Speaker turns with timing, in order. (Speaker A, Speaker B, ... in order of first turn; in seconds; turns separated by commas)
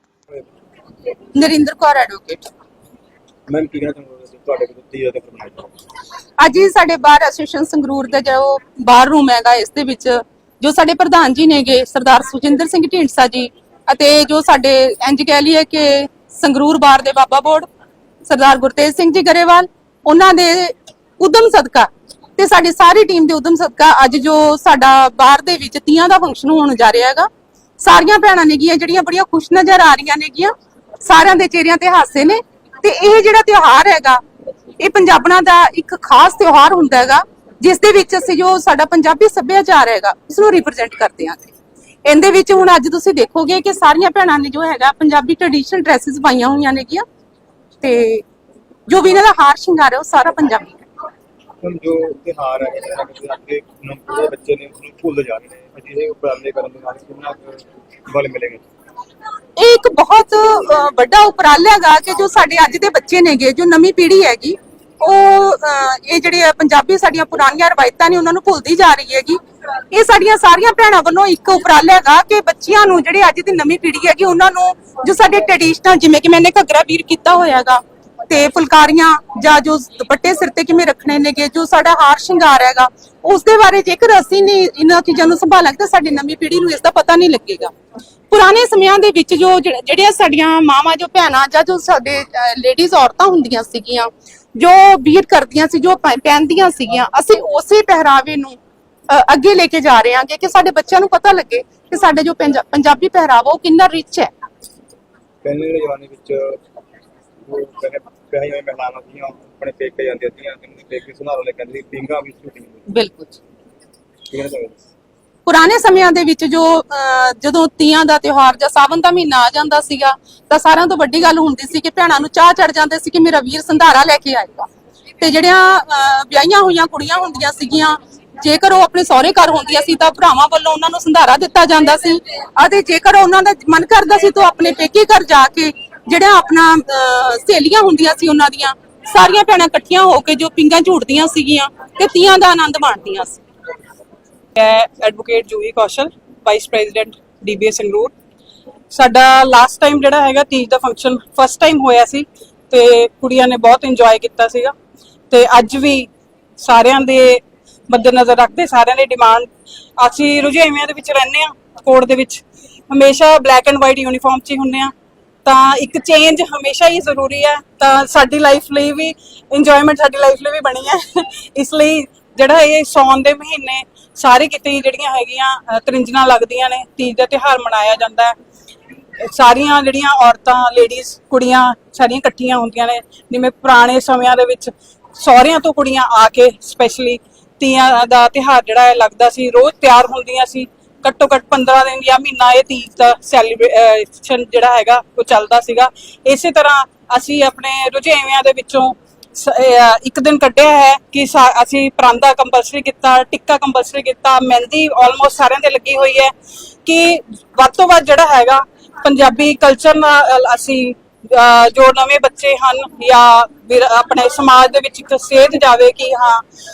Speaker A: 1.3-2.5, Speaker B: 3.5-5.7, Speaker A: 6.4-17.7, Speaker A: 18.2-27.3, Speaker A: 27.8-34.2, Speaker A: 34.8-41.5, Speaker A: 42.0-47.0, Speaker A: 47.8-48.2, Speaker A: 48.9-50.8, Speaker B: 51.6-58.6, Speaker A: 59.6-69.4, Speaker A: 69.9-87.7, Speaker A: 88.3-104.3, Speaker B: 105.4-106.6, Speaker B: 107.4-112.8, Speaker A: 112.9-113.4, Speaker B: 114.3-114.8, Speaker A: 115.5-124.7, Speaker A: 125.2-143.4, Speaker C: 144.6-148.1, Speaker C: 148.9-154.7, Speaker C: 155.3-156.1, Speaker C: 156.6-164.9, Speaker C: 165.4-178.3, Speaker C: 179.2-206.3, Speaker C: 206.8-216.4